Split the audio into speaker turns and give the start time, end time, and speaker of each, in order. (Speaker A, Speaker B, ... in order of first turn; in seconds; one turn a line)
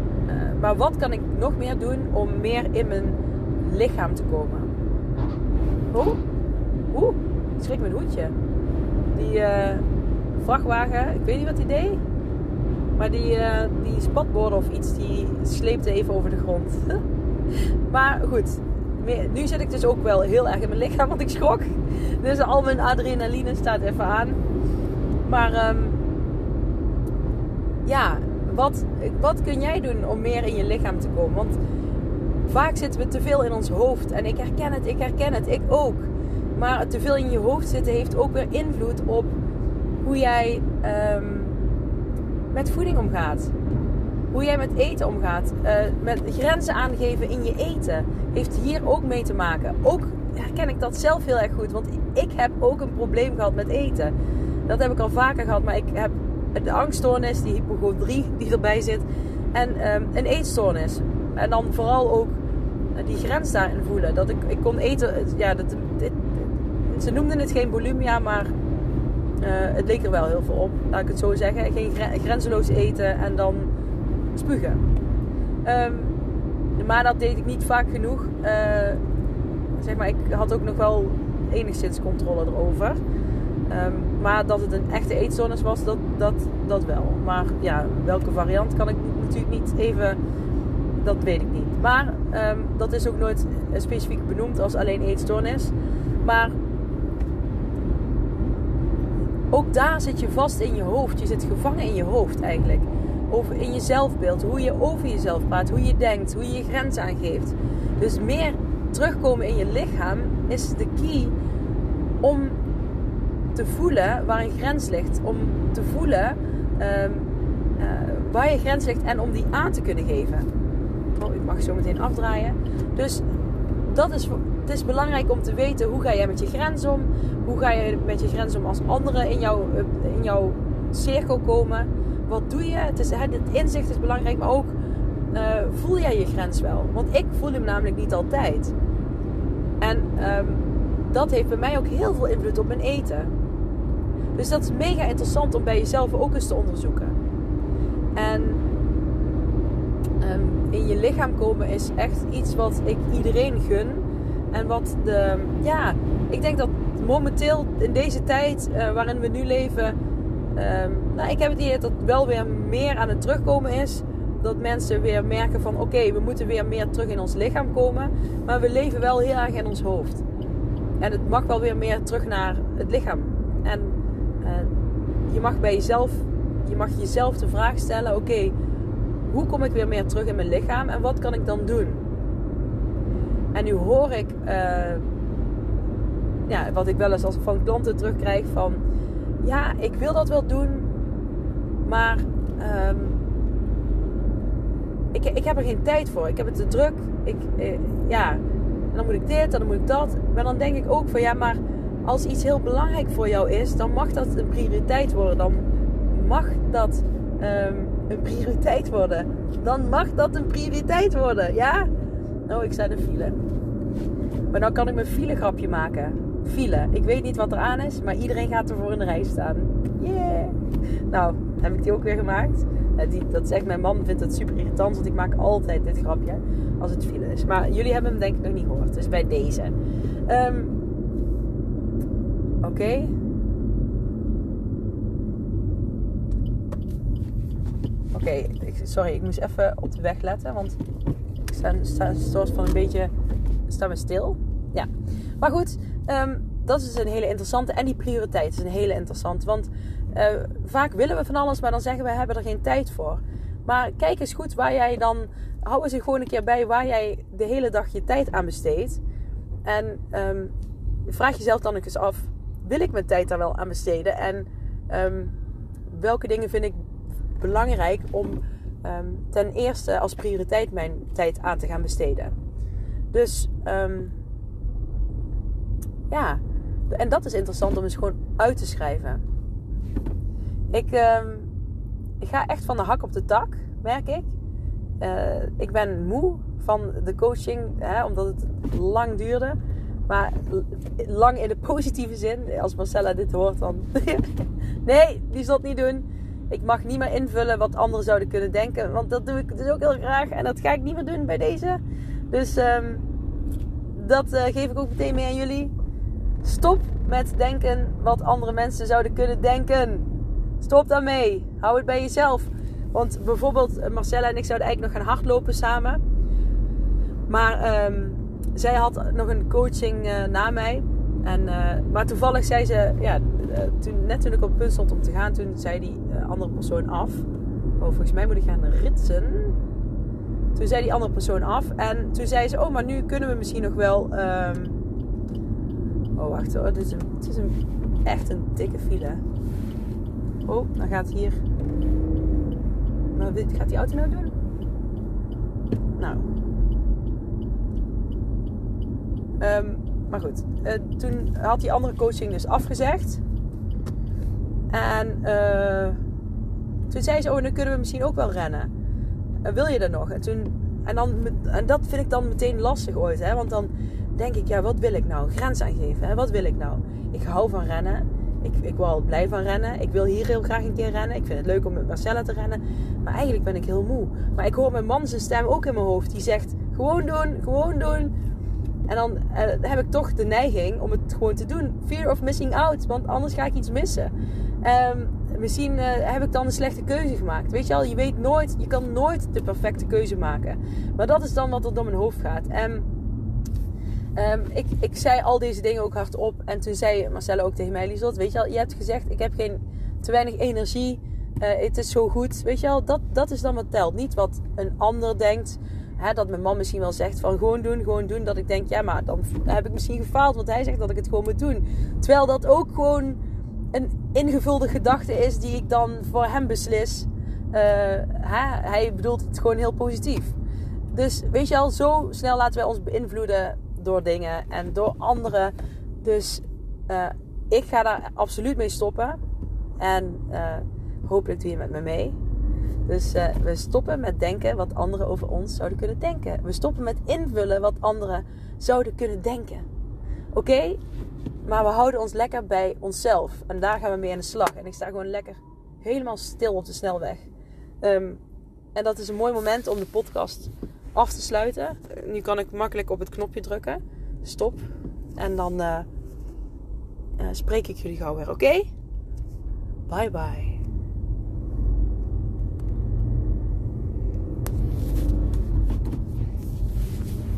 Speaker A: 0.3-4.7
Speaker A: 5.9-6.2
Speaker A: 6.9-8.3
Speaker A: 9.1-9.8
Speaker A: 10.4-12.0
Speaker A: 13.0-17.0
Speaker A: 17.9-24.4
Speaker A: 25.2-26.0
Speaker A: 27.9-31.6
Speaker A: 32.5-39.3
Speaker A: 40.0-41.5
Speaker A: 42.5-43.5
Speaker A: 44.3-54.1
Speaker A: 54.7-62.4
Speaker A: 63.0-68.5
Speaker A: 69.4-73.7
Speaker A: 74.3-74.8
Speaker A: 75.6-76.1
Speaker A: 76.8-79.0
Speaker A: 79.8-83.0
Speaker A: 83.7-90.2
Speaker A: 91.0-96.5
Speaker A: 99.5-111.3
Speaker A: 112.2-112.6
Speaker A: 113.5-117.3
Speaker A: 117.8-120.5
Speaker A: 121.2-123.2
Speaker A: 123.8-134.8
Speaker A: 135.3-138.8
Speaker A: 139.8-143.3
Speaker A: 144.3-147.2
Speaker A: 148.2-148.6
Speaker A: 150.2-160.0
Speaker A: 160.6-170.2
Speaker A: 171.0-174.7
Speaker A: 175.3-178.5
Speaker A: 179.2-182.0
Speaker A: 183.5-185.1
Speaker A: 186.5-188.8
Speaker A: 189.4-190.9
Speaker A: 191.8-193.2
Speaker A: 195.1-198.4
Speaker A: 198.9-211.9
Speaker A: 212.5-213.4
Speaker A: 214.5-220.6
Speaker A: 221.1-229.8
Speaker A: 230.3-230.8
Speaker A: 232.6-233.1
Speaker A: 238.1-240.8
Speaker A: 241.5-243.1
Speaker A: 243.7-244.9
Speaker A: 245.4-259.0
Speaker A: 259.6-260.5
Speaker A: 261.1-265.3
Speaker A: 265.9-266.9
Speaker A: 267.4-272.4
Speaker A: 273.1-274.1
Speaker A: 276.1-279.2
Speaker A: 280.7-281.5
Speaker A: 282.2-284.3
Speaker A: 285.0-294.3
Speaker A: 294.9-303.0
Speaker A: 303.9-305.7
Speaker A: 306.4-310.1
Speaker A: 310.6-316.0
Speaker A: 317.3-327.2
Speaker A: 327.8-329.6
Speaker A: 330.6-334.8
Speaker A: 336.2-339.2
Speaker A: 340.5-341.4
Speaker A: 343.1-344.3
Speaker A: 346.0-346.2
Speaker A: 349.4-353.2
Speaker A: 354.7-356.0
Speaker A: 356.9-358.7
Speaker A: 359.4-378.1
Speaker A: 378.9-392.9
Speaker A: 394.2-413.2
Speaker A: 413.7-420.4
Speaker A: 420.9-429.2
Speaker A: 429.8-432.2
Speaker A: 432.9-439.7
Speaker A: 440.3-440.8
Speaker A: 441.4-447.2
Speaker A: 447.8-448.2
Speaker A: 448.8-454.6
Speaker A: 455.2-455.9
Speaker A: 457.2-458.7
Speaker A: 459.9-460.6